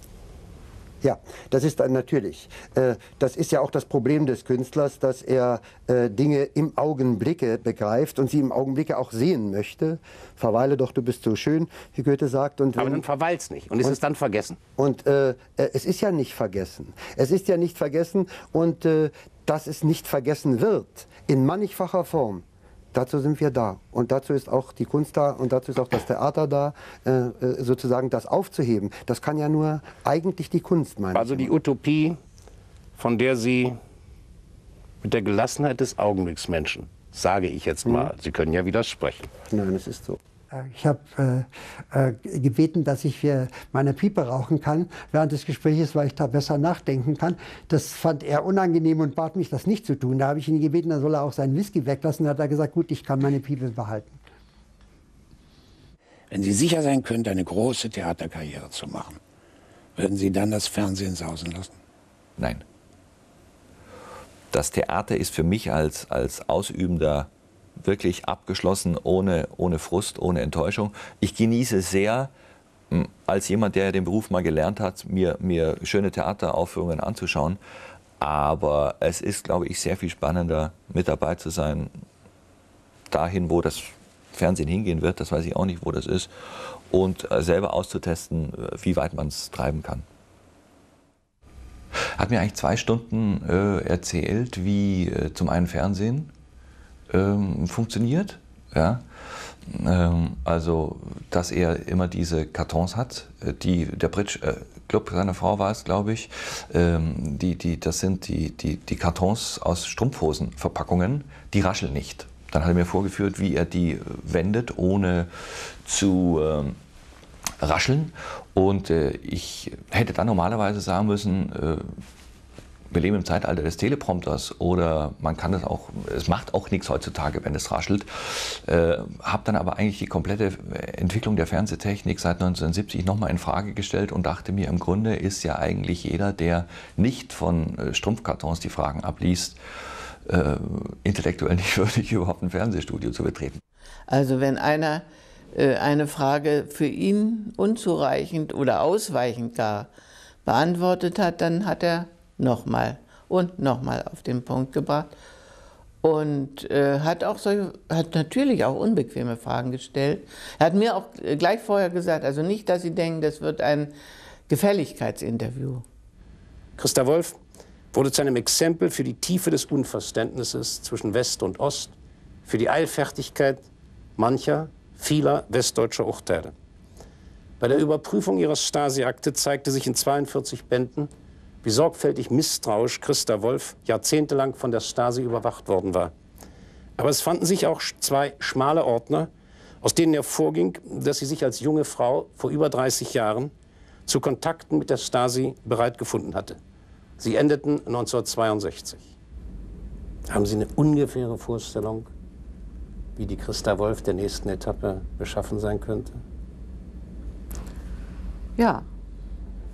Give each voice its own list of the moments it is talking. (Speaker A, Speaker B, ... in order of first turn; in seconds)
Speaker A: 1.0-13.0, 14.8-31.5, 37.8-38.1, 39.5-54.2
Speaker B: 12.7-14.6, 31.1-32.2, 33.0-33.8, 35.0-39.3, 166.8-167.4, 167.9-171.9, 172.4-176.5, 177.6-181.1, 181.6-186.1, 187.0-189.3, 189.8-193.5, 194.1-196.6, 197.2-199.1, 200.3-202.1, 203.2-206.2
Speaker C: 56.3-59.2, 60.0-61.8
Speaker D: 62.4-62.6, 64.5-67.3, 67.8-72.3, 72.9-77.6, 78.2-81.9, 83.1-90.0, 92.2-96.3, 97.1-116.8, 117.6-122.0, 122.9-139.6, 140.2-143.6
Speaker E: 144.1-149.9, 150.4-155.1, 156.0-163.9, 164.5-165.8, 208.6-208.8